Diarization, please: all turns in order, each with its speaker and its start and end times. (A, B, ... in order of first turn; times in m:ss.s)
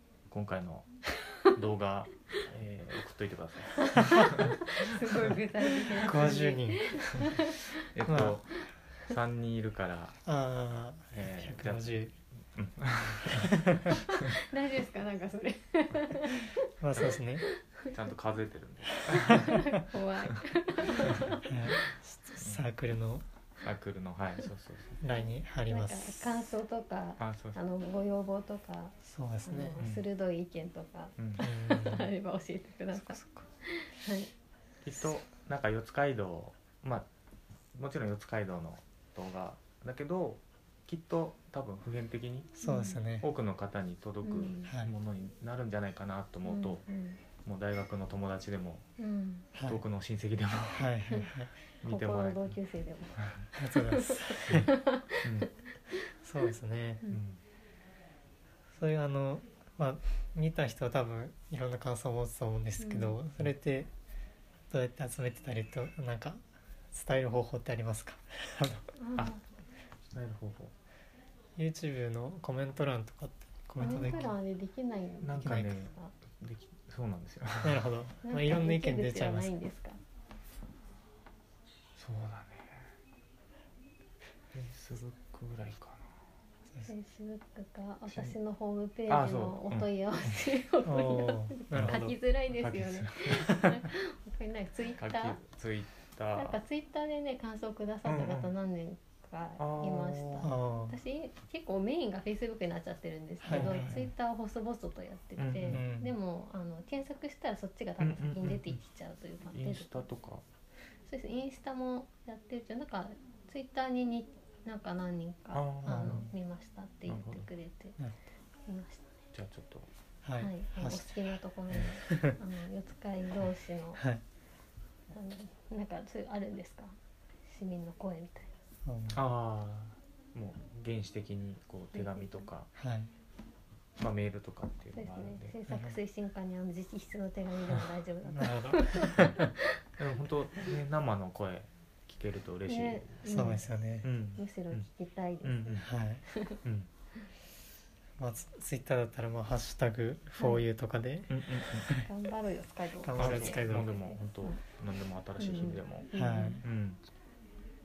0:00.3-0:04.6 A
0:03.8-0:07.8 B
0:04.0-0:04.3 C
0:06.0-0:06.9 C
0:07.1-0:10.2 A
0:08.1-0:08.4 C
0:10.2-0:12.1 C
0:11.1-0:14.3 A
0:13.3-0:14.0 C
0:14.1-0:17.9 B
0:16.8-0:17.4 C
0:17.8-0:19.7 A
0:18.9-0:21.5 B
0:21.0-0:21.4 A
0:21.4-0:23.2 C
0:22.4-0:22.6 A
0:23.6-0:25.0 A
0:25.0-0:26.4 C
0:25.1-0:34.3 B
0:27.2-0:27.6 A
0:29.0-0:29.8 C
0:31.2-0:31.5 A
0:31.4-0:32.1 C
0:34.8-0:37.1 A
0:37.7-0:42.6 A
0:42.6-0:43.3 C
0:42.6-0:43.0 B
0:43.2-0:46.8 A
0:44.2-0:44.7 B
0:46.5-0:47.2 B
0:47.4-0:48.9 A
0:49.0-0:49.5 B
0:49.5-0:49.8 C
0:49.7-0:50.9 A
0:50.8-0:51.5 C
0:51.8-0:52.6 A
0:51.8-0:56.0 B
0:53.2-0:53.5 A
0:53.6-0:54.7 C
0:54.5-0:54.7 A
0:55.2-0:55.5 A
0:56.2-0:57.0 C
0:57.1-0:57.4 A
0:58.8-1:03.9 C
1:02.8-1:03.2 B
1:04.7-1:08.9 C
1:09.0-1:09.4 B
1:10.1-1:10.7 A
1:11.6-1:14.3 C
1:13.8-1:16.1 B
1:13.8-1:14.3 A
1:15.2-1:17.9 A
1:15.4-1:15.8 C
1:17.6-1:19.5 C
1:18.2-1:20.0 B
1:22.0-1:22.9 A
1:24.5-1:26.2 A
1:26.9-1:35.4 B
1:28.1-1:28.4 A
1:29.1-1:29.9 A
1:30.8-1:32.1 C
1:31.7-1:33.6 A
1:35.0-1:36.6 A
1:36.4-1:50.0 B
1:38.0-1:38.5 A
1:39.6-1:40.5 A
1:40.4-1:41.0 C
1:43.4-1:44.0 C
1:43.5-1:44.1 A
1:45.4-1:45.8 A
1:45.7-1:46.1 C
1:48.0-1:48.8 A
1:49.5-1:50.4 A
1:51.1-1:58.0 B
1:55.5-1:56.3 A
1:55.8-1:56.2 C
1:57.1-1:57.5 A
1:58.7-1:59.1 B
1:59.3-1:59.9 A
2:00.2-2:01.2 C
2:00.4-2:04.0 B
2:02.1-2:02.4 C
2:04.0-2:04.2 C
2:05.1-2:08.6 B
2:08.8-2:09.2 C
2:09.1-2:12.7 A
2:11.9-2:12.5 B
2:12.8-2:13.1 C
2:14.0-2:15.6 A
2:15.0-2:19.6 B
2:15.7-2:16.0 C
2:18.3-2:19.5 C
2:20.0-2:24.9 A
2:22.7-2:23.6 B
2:23.3-2:24.1 C
2:24.4-2:26.6 B
2:25.4-2:25.9 A
2:25.8-2:26.2 C
2:28.2-2:32.1 C
2:30.4-2:30.6 B
2:31.3-2:32.0 A
2:32.0-2:34.6 B
2:33.0-2:33.9 C
2:33.2-2:36.1 A
2:35.4-2:36.6 B
2:36.1-2:36.6 C
2:36.6-2:37.0 A